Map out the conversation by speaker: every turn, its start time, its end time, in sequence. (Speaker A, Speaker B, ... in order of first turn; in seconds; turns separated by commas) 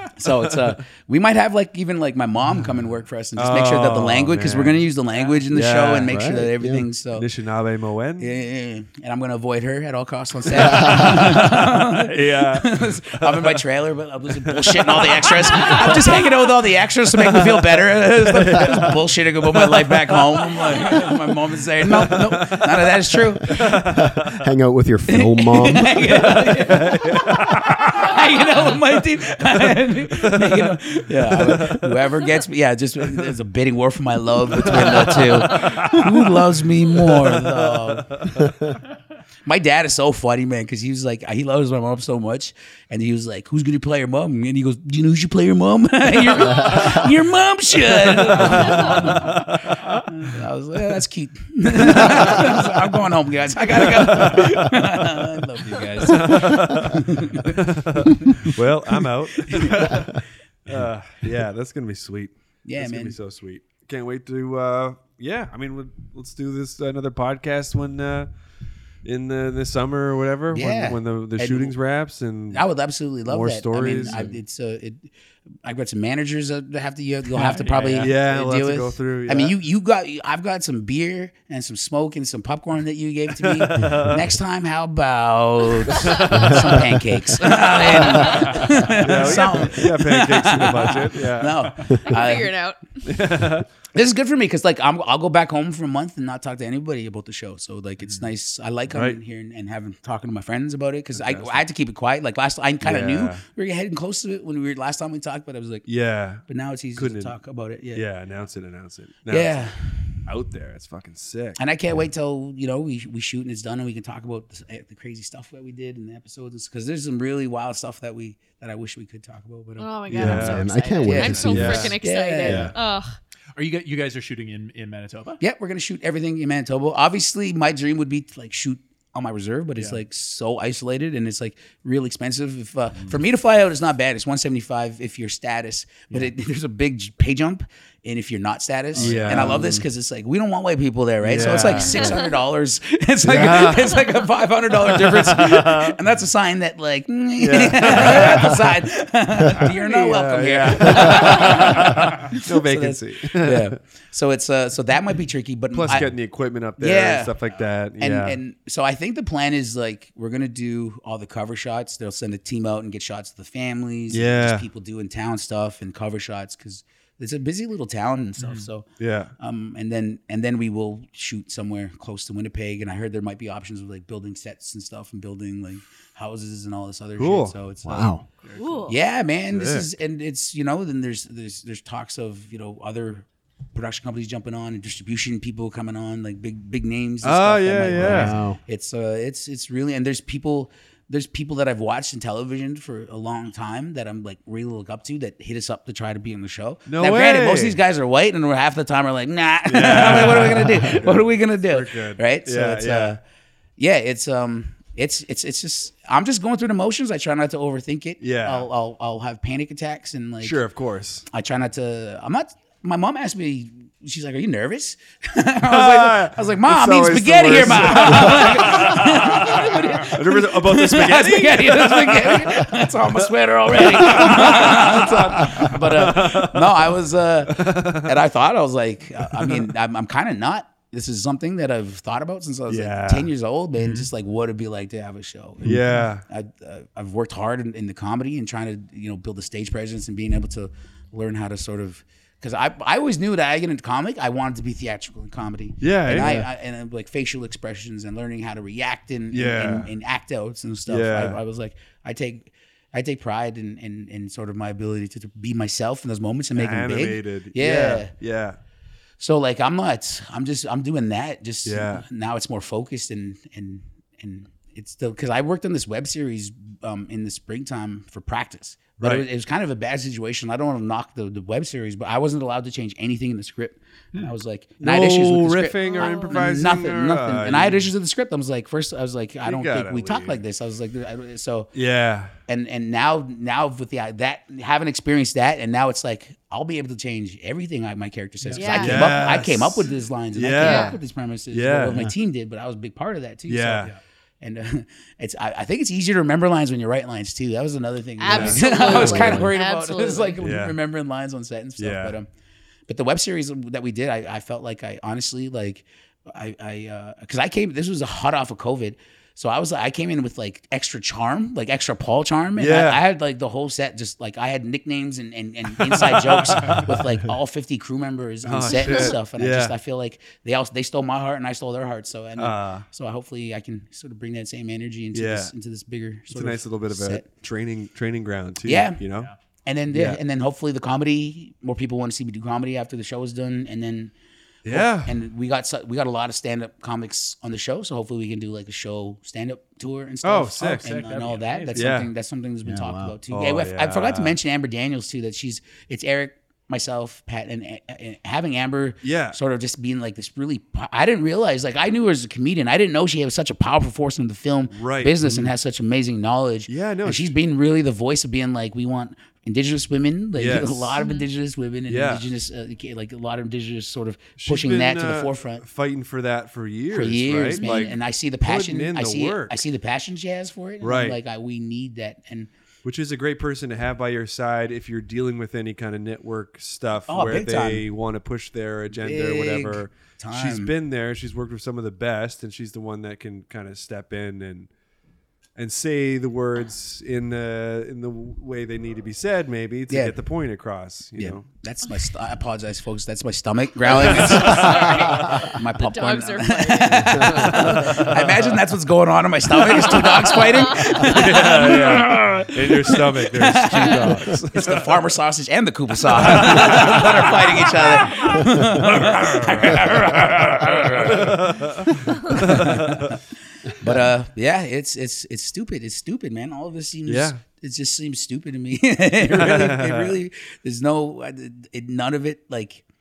Speaker A: 0.2-7.3, Speaker B: 2.5-2.8, Speaker B: 3.4-4.9, Speaker B: 5.5-6.3, Speaker C: 6.1-6.9, Speaker B: 7.1-8.3, Speaker A: 8.2-23.6, Speaker B: 10.5-13.6, Speaker C: 10.9-11.1, Speaker B: 14.3-16.3, Speaker B: 17.2-21.2, Speaker B: 21.8-24.4, Speaker C: 23.7-26.3, Speaker A: 25.1-38.1, Speaker B: 26.1-28.9, Speaker B: 29.5-32.0, Speaker B: 34.5-38.5, Speaker A: 39.5-57.6, Speaker B: 46.6-47.1, Speaker B: 47.8-50.0, Speaker B: 51.8-52.8, Speaker B: 53.7-55.0, Speaker B: 56.0-68.3, Speaker A: 58.2-58.5, Speaker A: 62.6-63.2, Speaker B: 69.0-72.7, Speaker A: 70.5-71.8, Speaker A: 72.5-75.1, Speaker B: 73.2-74.4, Speaker A: 75.6-92.5, Speaker D: 77.3-78.1, Speaker B: 77.5-79.6, Speaker B: 83.4-84.4, Speaker B: 85.9-88.3, Speaker E: 87.8-88.6, Speaker B: 89.0-92.0, Speaker E: 92.0-92.8, Speaker B: 93.0-93.7, Speaker A: 93.9-105.9, Speaker B: 98.9-99.2, Speaker B: 101.1-101.6, Speaker B: 102.8-103.4, Speaker B: 105.9-107.4, Speaker A: 106.5-108.0, Speaker B: 107.9-109.7, Speaker A: 109.3-110.2, Speaker B: 110.2-111.6, Speaker A: 111.6-119.9, Speaker E: 119.8-123.2, Speaker B: 120.1-120.7, Speaker C: 120.2-122.7, Speaker A: 121.0-122.7, Speaker B: 121.4-122.7, Speaker D: 123.5-125.4, Speaker A: 125.4-156.2, Speaker D: 139.0-139.4, Speaker B: 139.0-139.8, Speaker C: 139.4-139.8, Speaker B: 141.2-142.2, Speaker B: 143.2-144.2, Speaker B: 144.7-146.0, Speaker B: 147.4-148.7, Speaker B: 149.5-153.7, Speaker B: 155.7-158.4, Speaker A: 156.8-157.3, Speaker A: 158.0-168.8, Speaker B: 164.1-164.7, Speaker D: 168.4-168.7, Speaker B: 169.0-169.3, Speaker A: 169.4-178.2, Speaker B: 177.2-177.5, Speaker C: 177.8-178.2, Speaker D: 178.4-178.8, Speaker E: 178.6-178.9, Speaker A: 178.9-203.2, Speaker B: 179.5-179.9, Speaker B: 187.2-188.4, Speaker C: 187.9-188.6, Speaker B: 196.9-197.8, Speaker B: 199.7-203.2, Speaker A: 203.8-210.6, Speaker B: 208.2-208.7, Speaker B: 210.4-211.3, Speaker A: 211.3-258.1, Speaker B: 215.7-223.1, Speaker B: 223.7-228.2, Speaker B: 229.3-229.7, Speaker B: 232.7-233.3, Speaker B: 235.6-236.2, Speaker B: 245.8-246.5, Speaker C: 246.2-246.4, Speaker B: 249.3-249.9, Speaker B: 250.9-251.4, Speaker B: 256.6-258.6, Speaker A: 259.2-281.7, Speaker B: 261.6-262.1, Speaker B: 269.0-269.3, Speaker B: 274.8-277.9, Speaker E: 275.8-276.5, Speaker B: 279.4-280.4, Speaker B: 281.7-282.3, Speaker A: 282.5-302.3, Speaker E: 288.6-289.2, Speaker B: 288.7-292.1, Speaker E: 290.6-291.0, Speaker B: 293.5-293.9, Speaker E: 298.2-300.4, Speaker B: 298.3-299.5, Speaker B: 300.4-300.8, Speaker B: 301.8-302.2, Speaker A: 302.9-327.2, Speaker B: 312.6-313.0, Speaker B: 315.8-317.0, Speaker B: 318.5-319.8, Speaker E: 318.8-319.1, Speaker B: 322.4-322.9, Speaker B: 325.1-325.5, Speaker B: 326.3-329.3, Speaker A: 328.6-329.0, Speaker A: 329.6-334.1, Speaker B: 329.9-330.2, Speaker B: 334.6-335.2, Speaker A: 334.7-365.6, Speaker B: 340.2-340.9, Speaker D: 340.7-341.8, Speaker B: 341.7-342.1, Speaker C: 342.7-343.2, Speaker B: 343.3-344.4, Speaker B: 349.0-349.4, Speaker B: 354.7-355.5, Speaker B: 356.7-357.4, Speaker B: 360.4-361.0, Speaker E: 361.0-361.3, Speaker B: 361.9-362.3, Speaker B: 364.4-369.6, Speaker A: 366.9-372.5, Speaker E: 367.6-368.0, Speaker B: 370.8-371.2, Speaker B: 372.8-384.7, Speaker A: 377.1-377.9, Speaker A: 379.0-380.7, Speaker B: 385.6-391.5, Speaker A: 389.9-390.1, Speaker A: 391.2-411.4, Speaker B: 393.9-395.5, Speaker E: 394.4-397.7, Speaker B: 397.3-398.5, Speaker B: 399.8-404.9, Speaker B: 406.1-408.1, Speaker B: 408.8-413.2, Speaker A: 412.3-413.2, Speaker A: 413.7-422.8, Speaker B: 417.1-417.4, Speaker B: 419.2-420.2